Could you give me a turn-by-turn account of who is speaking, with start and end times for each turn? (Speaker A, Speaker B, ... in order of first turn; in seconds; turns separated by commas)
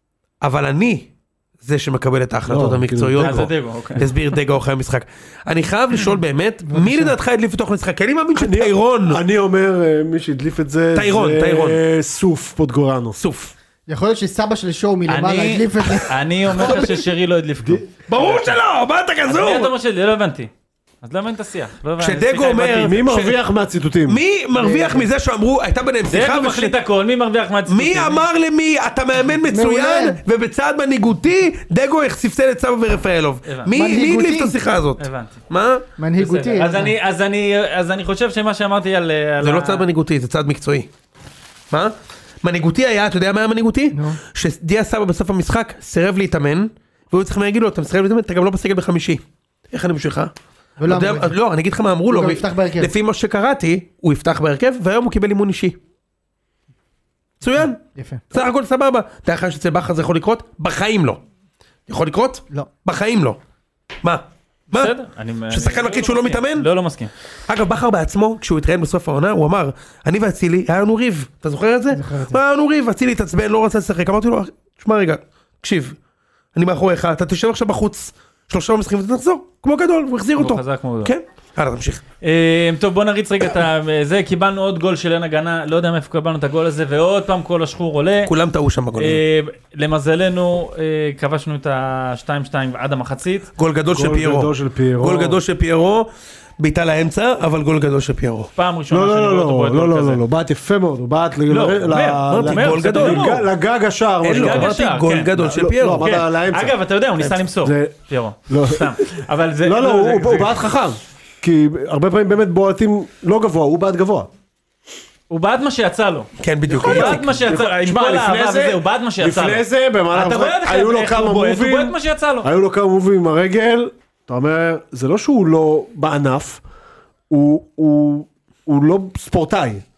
Speaker A: 0.4-1.1, Speaker A: 1.6-9.2, Speaker B: 2.5-3.5, Speaker C: 3.2-4.1, Speaker D: 6.7-7.2, Speaker B: 8.3-13.2, Speaker A: 10.9-11.8, Speaker A: 13.2-13.5, Speaker D: 13.9-16.8, Speaker C: 15.1-18.6, Speaker A: 16.6-16.9, Speaker A: 18.1-19.7, Speaker C: 19.2-20.5, Speaker C: 21.0-23.0, Speaker A: 22.0-23.4, Speaker B: 22.8-24.2, Speaker A: 24.1-26.8, Speaker D: 24.6-25.1, Speaker C: 26.1-28.3, Speaker A: 27.7-35.8, Speaker D: 29.5-30.2, Speaker C: 33.5-33.7, Speaker D: 33.7-34.6, Speaker C: 35.0-35.4, Speaker D: 36.0-36.9, Speaker C: 36.2-39.9, Speaker A: 39.4-40.9, Speaker A: 41.7-50.3, Speaker D: 43.9-44.2, Speaker D: 50.8-51.4, Speaker A: 50.8-55.8, Speaker D: 52.1-52.9, Speaker A: 57.4-61.2, Speaker D: 58.0-58.2, Speaker A: 61.9-63.4, Speaker A: 64.0-64.9, Speaker C: 64.7-67.1, Speaker A: 65.5-66.7, Speaker A: 67.5-76.0, Speaker D: 71.9-72.4, Speaker A: 76.5-82.0, Speaker C: 80.4-81.1, Speaker C: 82.2-88.3, Speaker A: 88.2-89.2, Speaker C: 89.0-93.5, Speaker A: 93.6-98.5, Speaker B: 93.9-95.4, Speaker C: 98.6-100.2, Speaker B: 98.9-104.7, Speaker C: 101.5-103.5, Speaker A: 102.3-103.4, Speaker A: 104.2-106.1, Speaker C: 104.2-105.3, Speaker B: 105.4-107.9, Speaker C: 106.0-110.6, Speaker B: 108.5-114.3, Speaker C: 115.3-122.5, Speaker A: 116.4-117.2, Speaker B: 116.7-126.6, Speaker B: 127.3-129.8